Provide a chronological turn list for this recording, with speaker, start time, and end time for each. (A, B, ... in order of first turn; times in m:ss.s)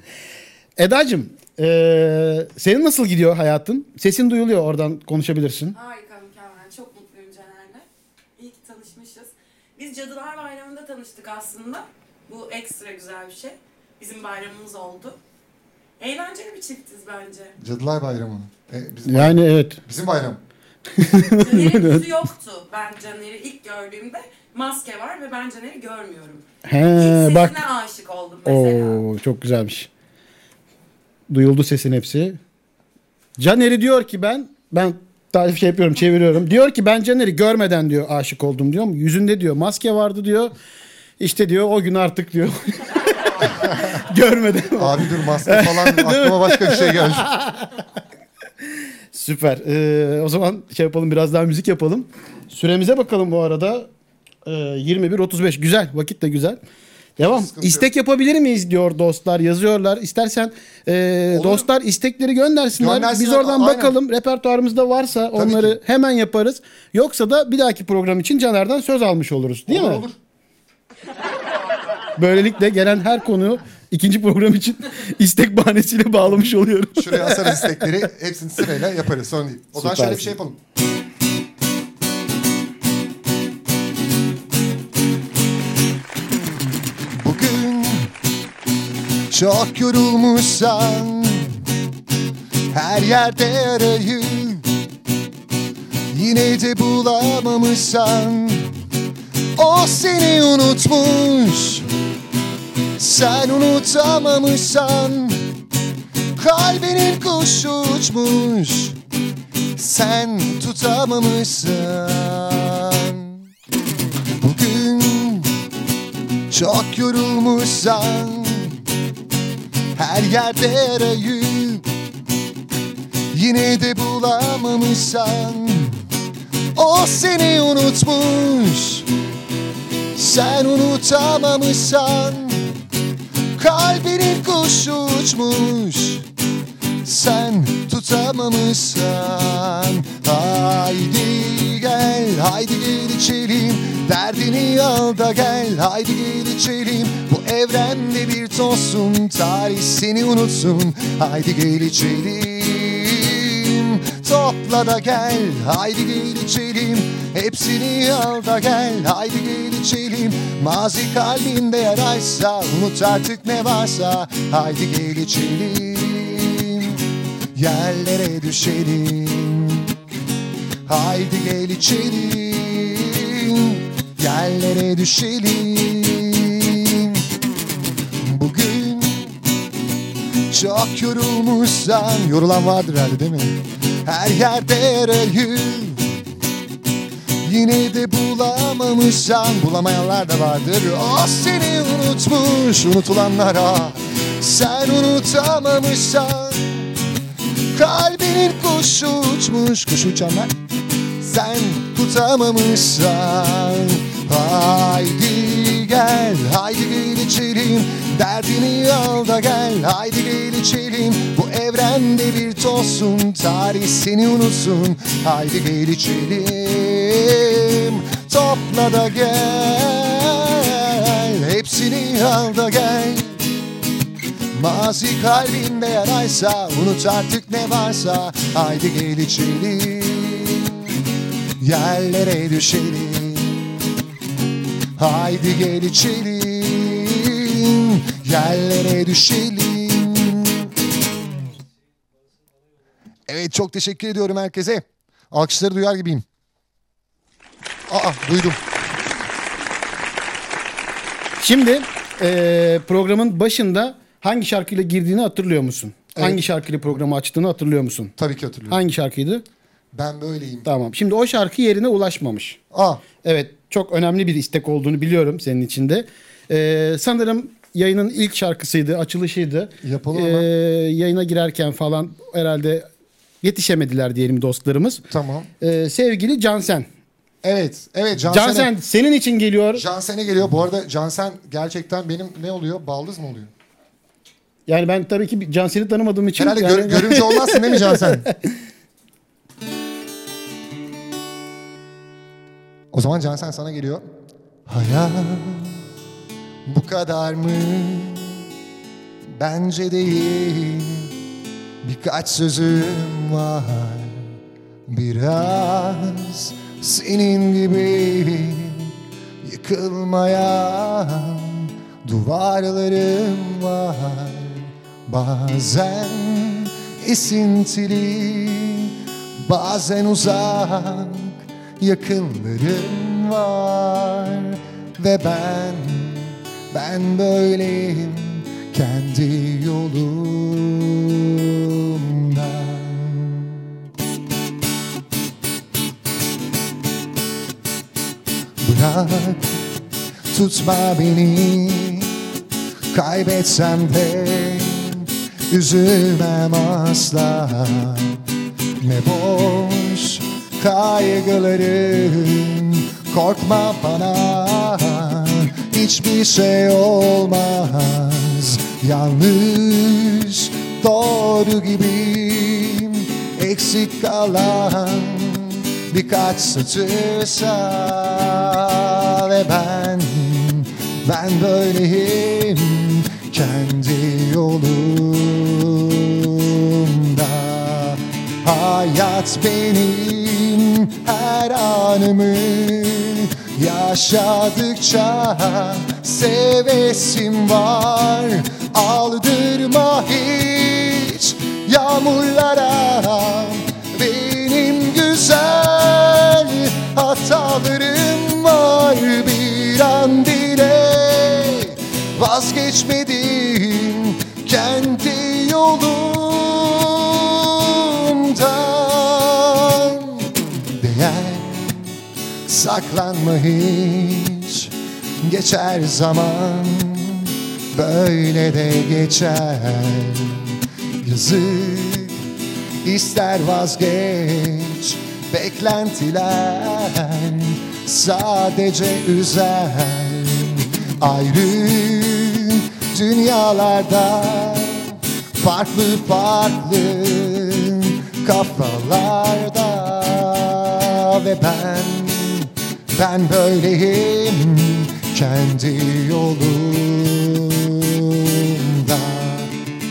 0:00.8-0:05.8 A
0:05.7-0:15.2 B
0:16.0-0:17.5 B
0:17.6-0:20.4 C
0:19.1-0:19.8 A
0:21.0-0:22.1 A
0:21.3-0:26.4 B
0:26.6-0:27.6 A
0:27.0-0:29.0 B
0:28.4-0:29.9 A
0:31.3-0:32.4 A
0:33.4-0:40.5 A
0:41.2-0:47.8 A
0:44.8-0:47.3 C
0:49.1-0:53.9 A
0:54.5-0:56.6 A
0:57.2-0:57.9 C
0:57.2-1:10.0 A
1:01.3-1:01.7 C
1:02.8-1:04.0 C
1:05.3-1:05.8 C
1:09.7-1:10.2 C
1:12.2-1:17.9 A
1:17.0-1:20.6 C
1:19.8-1:20.4 A
1:27.1-1:28.1 C
1:29.3-1:31.6 C
1:32.7-1:34.7 C
1:36.1-1:38.7 C
1:39.6-1:41.9 C
1:43.0-1:45.5 C
1:46.4-1:49.0 C
1:49.8-1:53.4 C
1:54.4-1:55.5 C
1:56.5-1:58.8 C
2:00.0-2:01.9 C
2:03.3-2:06.0 C
2:06.8-2:09.1 C
2:10.2-2:12.8 C
2:13.6-2:16.3 C
2:17.0-2:47.0 C
2:47.6-2:50.0 C
2:50.9-2:57.2 C
2:58.2-2:59.4 C
3:00.5-3:06.2 C
3:07.4-3:16.9 C
3:17.7-3:20.6 C
3:21.2-3:43.4 C
3:44.5-3:51.0 C
3:51.6-3:53.8 C
3:55.0-4:00.7 C
4:03.3-4:06.2 C
4:07.9-4:08.6 C
4:11.4-4:18.1 A
4:16.2-4:16.4 C
4:18.2-4:18.8 C
4:18.7-4:19.4 A
4:19.9-4:20.7 C
4:20.7-4:22.6 A
4:22.7-4:23.0 C
4:23.2-4:32.9 A
4:29.8-4:30.5 C
4:33.4-4:35.0 A
4:35.1-4:35.5 C
4:35.6-4:36.9 A
4:37.4-4:38.7 C
4:38.3-4:39.8 A
4:39.7-4:43.5 C
4:44.7-4:48.6 A
4:46.4-4:48.3 C
4:52.9-4:54.1 C
4:54.7-4:55.8 C
4:56.7-4:58.4 C
4:59.4-5:01.2 C
5:01.8-5:04.4 C
5:04.9-5:33.8 C
5:38.6-5:39.6 C
5:40.3-5:42.2 C
5:42.9-5:48.2 C
5:48.8-6:51.9 C
6:52.5-7:02.2 C
7:02.8-7:29.6 C